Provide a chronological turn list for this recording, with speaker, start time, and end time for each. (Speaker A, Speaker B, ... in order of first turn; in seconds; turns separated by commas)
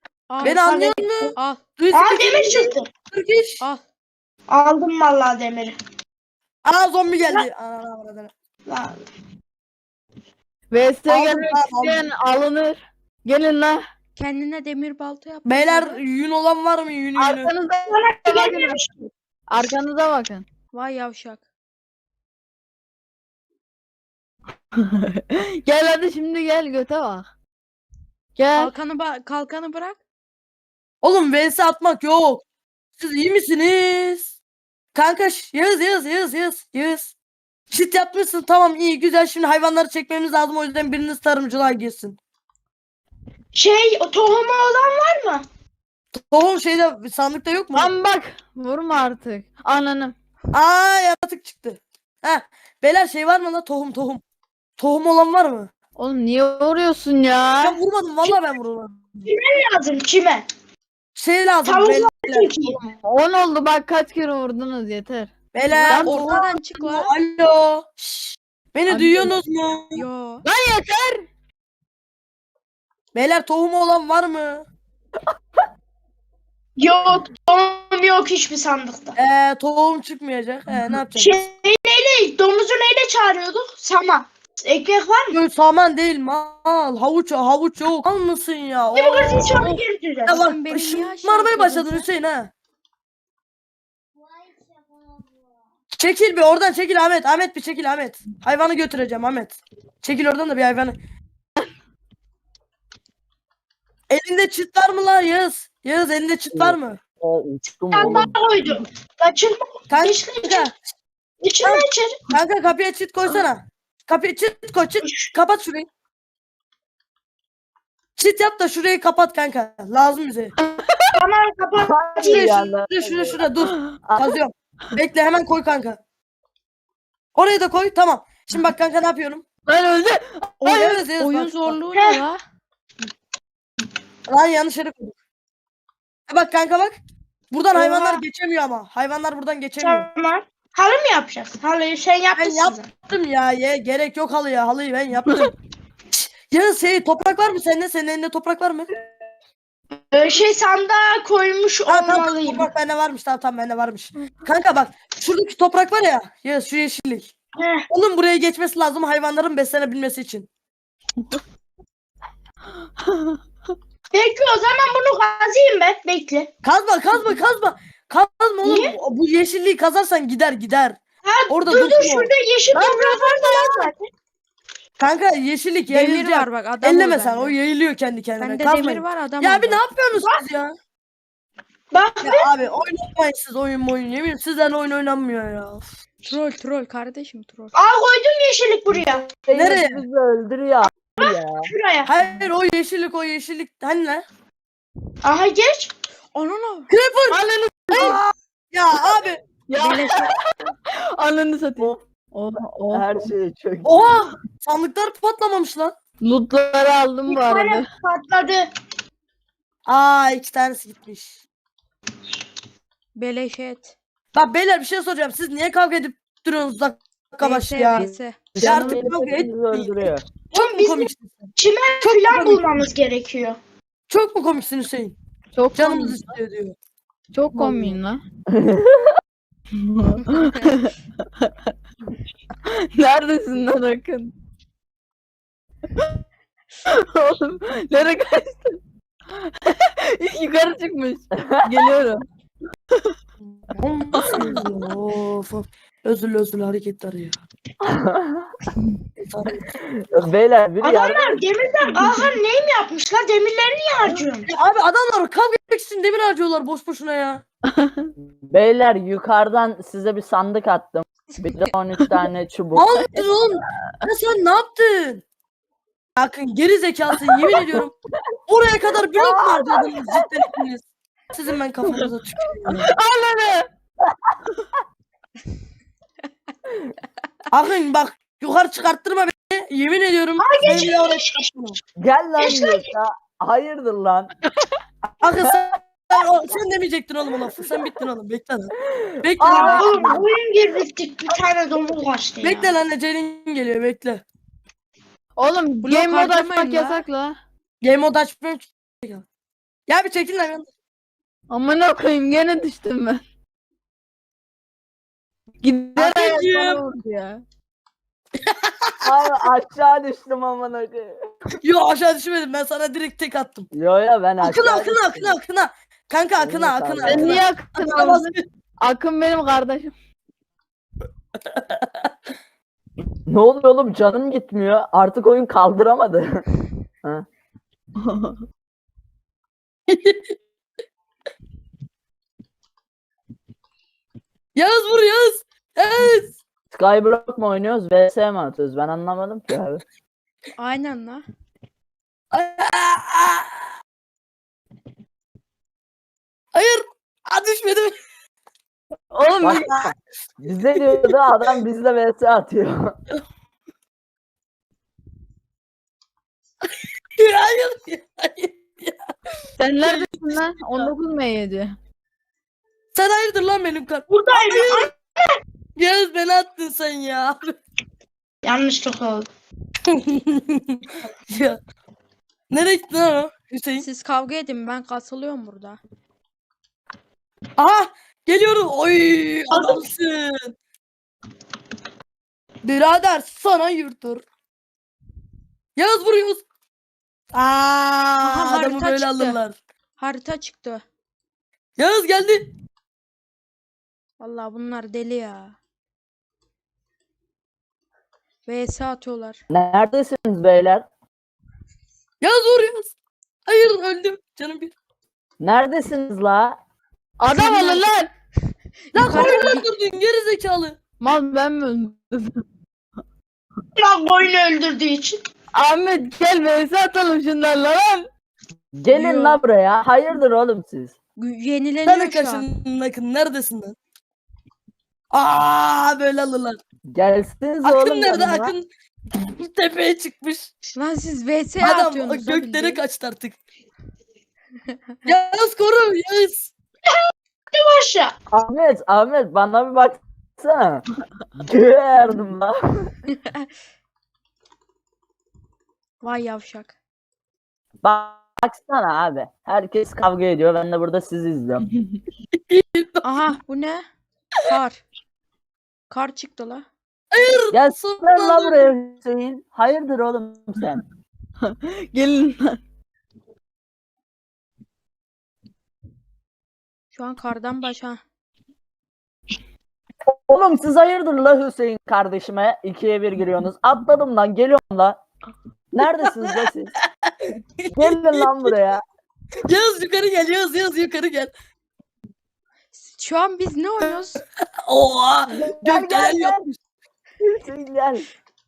Speaker A: 0.3-1.6, Speaker B: 0.4-3.6, Speaker C: 0.4-1.3, Speaker C: 1.9-2.9, Speaker C: 4.5-5.8, Speaker B: 6.6-8.3, Speaker C: 8.7-9.1, Speaker D: 10.7-13.8, Speaker B: 11.1-12.1, Speaker A: 14.2-16.0, Speaker B: 15.4-17.5, Speaker D: 17.1-18.8, Speaker C: 17.9-19.1, Speaker D: 19.5-20.4, Speaker A: 20.7-21.4, Speaker D: 24.8-27.3, Speaker D: 28.4-28.7, Speaker A: 28.6-30.0, Speaker B: 31.0-32.4, Speaker B: 33.0-34.3, Speaker B: 34.9-37.1, Speaker B: 37.7-42.2, Speaker C: 43.5-45.4, Speaker B: 46.1-47.9, Speaker D: 47.7-50.1, Speaker B: 50.5-54.2, Speaker B: 54.8-55.7, Speaker D: 56.0-57.8, Speaker B: 57.6-59.3, Speaker C: 59.2-60.4, Speaker B: 61.1-62.5, Speaker C: 61.6-62.8, Speaker D: 62.6-65.3, Speaker B: 65.5-70.0, Speaker A: 65.7-67.1, Speaker D: 65.9-66.3, Speaker D: 68.9-69.3, Speaker A: 69.9-70.4, Speaker D: 70.4-71.2, Speaker B: 73.1-74.6, Speaker C: 76.8-79.1, Speaker B: 79.2-81.5, Speaker C: 81.2-85.4, Speaker B: 85.3-92.5, Speaker C: 88.9-90.3, Speaker A: 90.2-92.1, Speaker B: 95.9-101.0, Speaker B: 104.1-107.0, Speaker E: 106.5-108.3, Speaker C: 107.9-110.7, Speaker B: 109.9-110.8, Speaker C: 111.4-112.2, Speaker B: 111.6-115.9, Speaker C: 115.0-115.3, Speaker B: 118.2-120.5, Speaker D: 120.6-121.2, Speaker C: 121.1-122.6, Speaker E: 121.8-123.4, Speaker B: 122.2-126.0, Speaker E: 124.0-124.3, Speaker B: 127.3-129.4, Speaker D: 129.7-131.0, Speaker B: 130.6-131.8, Speaker A: 131.1-132.4, Speaker C: 131.9-132.2, Speaker B: 134.3-135.1, Speaker B: 136.3-137.0, Speaker B: 137.5-140.1, Speaker C: 137.8-138.2, Speaker C: 139.8-142.9, Speaker B: 142.3-145.5, Speaker B: 146.1-148.9, Speaker C: 150.1-152.7, Speaker B: 151.9-157.3, Speaker C: 157.6-157.8, Speaker B: 157.9-160.5, Speaker D: 163.0-163.3, Speaker C: 164.1-166.5, Speaker B: 166.6-173.9, Speaker C: 168.6-168.9, Speaker C: 171.2-174.1, Speaker B: 175.0-180.7, Speaker A: 175.9-177.5, Speaker A: 178.4-179.8, Speaker C: 181.9-182.5, Speaker B: 182.2-185.8, Speaker A: 186.2-187.7, Speaker C: 187.8-189.3, Speaker E: 189.3-191.7, Speaker B: 189.5-190.0, Speaker C: 191.2-192.1, Speaker B: 192.1-194.2, Speaker C: 195.2-195.9, Speaker A: 196.3-196.9, Speaker B: 196.9-197.4, Speaker D: 197.3-198.2, Speaker B: 197.9-198.2, Speaker B: 198.7-199.4, Speaker D: 199.7-203.2, Speaker A: 199.8-200.3, Speaker E: 202.6-203.9, Speaker B: 203.8-205.9, Speaker D: 206.2-207.9, Speaker C: 207.3-208.7, Speaker B: 209.9-211.4, Speaker A: 213.1-213.9, Speaker B: 214.3-219.9, Speaker A: 217.4-218.4, Speaker E: 218.6-220.2, Speaker B: 220.5-222.6, Speaker C: 220.5-223.6, Speaker B: 224.1-225.2, Speaker D: 225.5-226.2, Speaker B: 225.7-226.7, Speaker D: 227.3-228.2, Speaker B: 227.5-228.0, Speaker E: 228.5-229.2, Speaker D: 229.7-231.7, Speaker D: 232.7-234.3, Speaker D: 236.8-238.8, Speaker D: 239.3-242.2, Speaker E: 241.3-241.9, Speaker B: 243.5-247.4, Speaker D: 244.1-244.6, Speaker E: 247.8-248.5, Speaker B: 249.3-249.7, Speaker E: 249.7-251.4, Speaker C: 250.8-254.5, Speaker B: 254.5-257.4, Speaker D: 257.7-258.1, Speaker E: 258.2-263.2, Speaker B: 262.7-265.2, Speaker B: 266.2-267.9, Speaker B: 268.5-272.9, Speaker E: 269.1-270.3, Speaker D: 272.7-273.6, Speaker E: 274.0-274.3, Speaker B: 277.5-281.8, Speaker C: 280.4-281.5, Speaker E: 282.0-284.3, Speaker C: 282.4-282.9, Speaker B: 285.2-289.9, Speaker E: 288.9-290.3, Speaker C: 289.4-292.7, Speaker B: 292.4-294.2, Speaker D: 295.4-297.4, Speaker A: 295.8-297.0, Speaker B: 297.8-299.2, Speaker B: 299.9-300.6, Speaker D: 301.5-303.2, Speaker D: 305.6-307.4, Speaker B: 305.9-306.8, Speaker B: 308.4-309.4, Speaker E: 309.0-311.3, Speaker B: 311.6-313.7, Speaker E: 313.7-315.4, Speaker B: 314.4-318.4, Speaker E: 316.4-317.4, Speaker D: 317.0-319.9, Speaker B: 321.6-321.9, Speaker E: 323.3-326.4, Speaker D: 328.0-328.3, Speaker B: 329.9-330.4, Speaker B: 334.5-336.4, Speaker E: 336.7-339.8, Speaker A: 340.6-341.2, Speaker B: 342.3-343.6, Speaker B: 346.5-347.9, Speaker D: 349.1-349.8, Speaker E: 349.4-353.0, Speaker B: 349.6-349.9, Speaker B: 350.7-351.2, Speaker B: 357.2-359.0, Speaker D: 359.6-361.7, Speaker B: 359.8-360.9, Speaker B: 362.9-364.9, Speaker C: 364.1-365.4, Speaker B: 365.8-367.6, Speaker C: 368.4-369.3, Speaker B: 369.9-371.6, Speaker B: 372.5-373.9, Speaker A: 373.8-375.8, Speaker B: 377.6-380.5, Speaker C: 379.5-379.8, Speaker B: 382.6-384.2, Speaker B: 385.8-386.4, Speaker B: 387.3-389.6, Speaker A: 388.2-389.4, Speaker A: 390.0-390.8, Speaker B: 391.8-392.5, Speaker A: 394.2-395.6, Speaker A: 398.4-399.4, Speaker E: 399.5-400.8, Speaker B: 402.2-402.9, Speaker B: 403.4-404.7, Speaker E: 405.4-406.6, Speaker D: 407.2-408.1, Speaker A: 407.3-407.9, Speaker A: 408.9-409.6, Speaker B: 408.9-410.8, Speaker D: 411.0-412.4, Speaker C: 413.8-415.2, Speaker D: 415.5-418.1, Speaker E: 418.7-420.9, Speaker A: 418.9-419.4, Speaker A: 421.2-422.5, Speaker B: 421.9-423.8, Speaker B: 425.1-426.6, Speaker E: 426.9-428.5, Speaker B: 427.6-428.6, Speaker B: 429.3-430.5, Speaker A: 430.8-432.8, Speaker B: 431.6-433.4, Speaker B: 435.1-436.5, Speaker C: 436.9-438.1, Speaker E: 438.3-440.8, Speaker E: 441.4-442.9, Speaker A: 446.0-446.7, Speaker E: 447.8-451.7, Speaker B: 452.5-453.1, Speaker A: 453.0-453.8, Speaker A: 454.4-454.8, Speaker A: 455.9-456.6, Speaker B: 457.1-458.7, Speaker E: 457.5-460.8, Speaker D: 461.4-462.6, Speaker A: 466.9-468.0, Speaker E: 470.1-475.0, Speaker E: 475.7-476.7, Speaker B: 476.0-476.5, Speaker B: 477.6-478.5, Speaker E: 477.7-478.8, Speaker B: 479.4-481.3, Speaker A: 482.7-484.2, Speaker B: 484.6-486.6, Speaker E: 485.3-486.4, Speaker E: 487.2-488.1